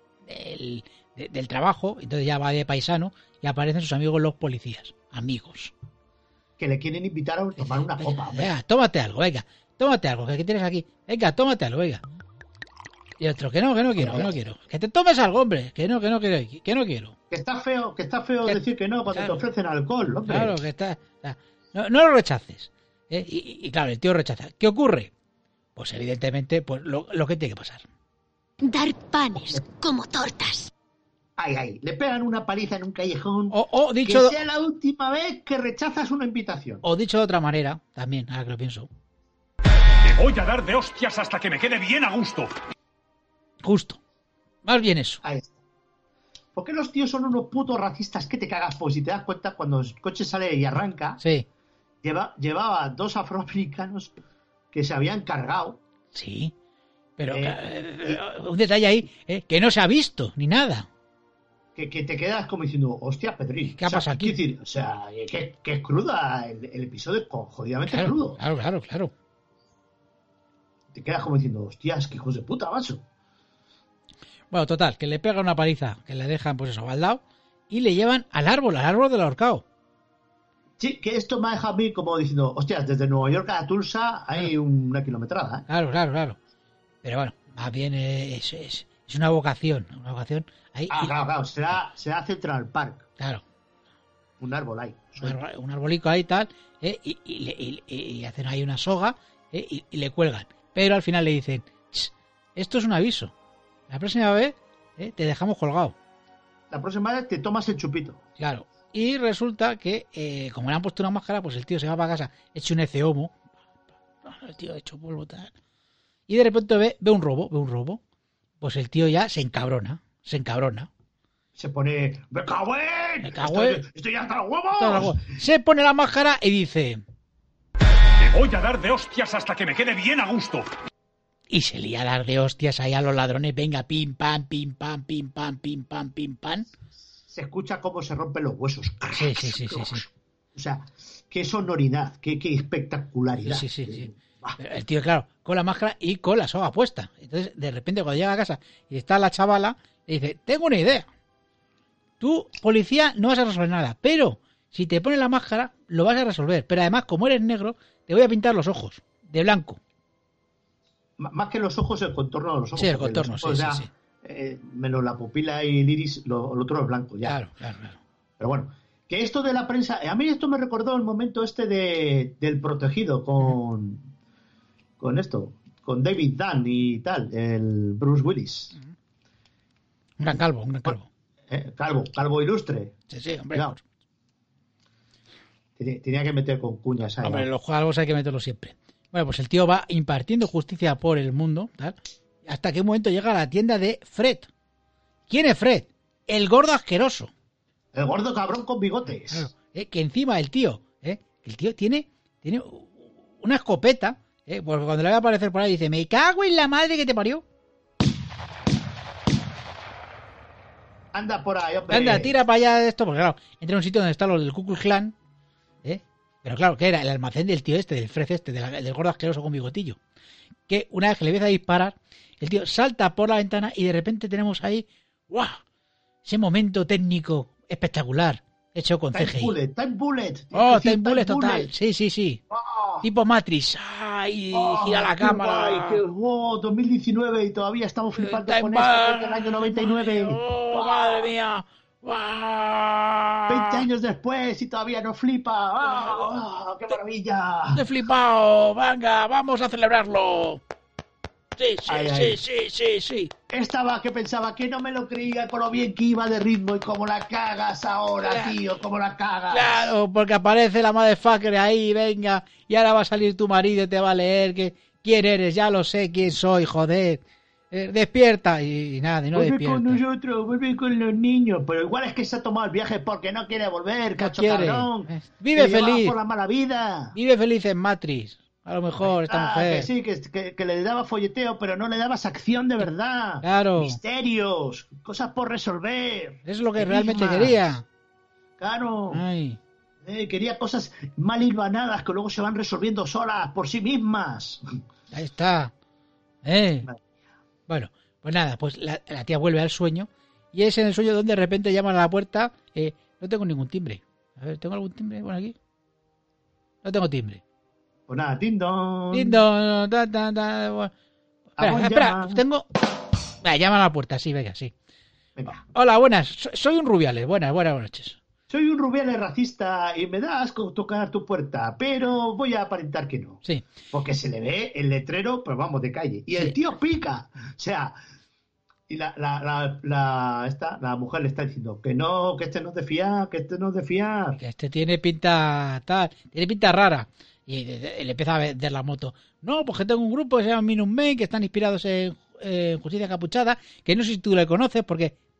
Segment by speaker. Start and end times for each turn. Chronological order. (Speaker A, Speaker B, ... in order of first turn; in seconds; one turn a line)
Speaker A: 0.2-5.7
Speaker B: 6.6-8.5
Speaker A: 7.6-12.0
Speaker A: 13.2-17.1
Speaker B: 13.9-14.3
Speaker B: 17.3-20.6
Speaker A: 19.1-19.4
Speaker A: 20.3-25.1
Speaker A: 25.8-27.8
Speaker C: 28.6-30.7
Speaker B: 31.4-36.8
Speaker A: 33.5-34.4
Speaker A: 36.8-38.9
Speaker D: 40.0-42.5
Speaker A: 43.6-44.0
Speaker A: 44.6-45.2
Speaker B: 45.2-45.6
Speaker B: 46.5-51.2
Speaker A: 51.2-51.5
Speaker B: 52.0-54.1
Speaker B: 54.7-55.8
Speaker A: 56.1-56.5
Speaker A: 57.2-60.9
Speaker B: 57.3-58.2
Speaker B: 61.7-68.4
Speaker A: 63.8-64.4
Speaker A: 67.9-69.1
Speaker B: 70.9-73.0
Speaker A: 74.5-79.6
Speaker B: 80.8-85.7
Speaker A: 85.7-86.4
Speaker A: 87.0-91.1
Speaker B: 90.9-93.0
Speaker B: 94.4-95.4
Speaker A: 95.2-103.3
Speaker A: 103.9-105.9
Speaker B: 106.7-108.2
Speaker A: 108.4-113.3
Speaker A: 114.2-115.5
Speaker A: 116.3-118.0
Speaker A: 118.6-120.9
Speaker B: 121.5-125.3
Speaker A: 123.2-123.8
Speaker A: 124.8-127.0
Speaker D: 128.2-130.7
Speaker A: 131.5-136.7
Speaker B: 137.3-144.6
Speaker A: 139.1-140.1
Speaker A: 143.4-151.1
Speaker A: 152.2-159.8
Speaker B: 161.2-167.4
Speaker A: 162.8-163.9
Speaker A: 167.2-168.0
Speaker B: 168.4-174.1
Speaker B: 175.0-178.8
Speaker A: 180.2-181.1
Speaker B: 181.5-182.9
Speaker A: 183.1-183.8
Speaker B: 185.8-187.5
Speaker A: 187.2-194.5
Speaker A: 195.3-197.3
Speaker B: 197.9-199.5
Speaker A: 199.2-207.4
Speaker B: 211.1-212.3
Speaker A: 211.9-215.1
Speaker A: 215.8-220.0
Speaker A: 220.7-225.6
Speaker A: 226.2-229.5
Speaker B: 229.1-231.7
Speaker A: 230.5-232.4
Speaker B: 232.5-233.1
Speaker A: 233.0-236.0
Speaker B: 234.5-241.3
Speaker A: 238.2-243.8
Speaker B: 243.5-247.9
Speaker A: 247.7-250.6
Speaker A: 251.6-253.3
Speaker B: 251.8-252.4
Speaker B: 253.5-259.9
Speaker A: 258.2-258.6
Speaker A: 259.5-270.0
Speaker B: 269.3-277.1
Speaker A: 274.2-276.1
Speaker A: 277.1-279.9
Speaker B: 279.0-287.7
Speaker A: 283.4-284.0
Speaker A: 286.4-287.8
Speaker B: 288.6-289.2
Speaker A: 289.1-289.6
Speaker B: 290.0-294.6
Speaker A: 295.1-295.7
Speaker A: 296.4-296.9
Speaker A: 297.7-305.6
Speaker A: 306.8-307.4
Speaker B: 308.1-309.4
Speaker A: 309.1-310.9
Speaker A: 311.6-312.6
Speaker B: 311.6-312.4
Speaker A: 313.4-314.7
Speaker A: 315.5-318.2
Speaker B: 318.5-328.0
Speaker B: 328.9-334.4
Speaker A: 334.4-345.1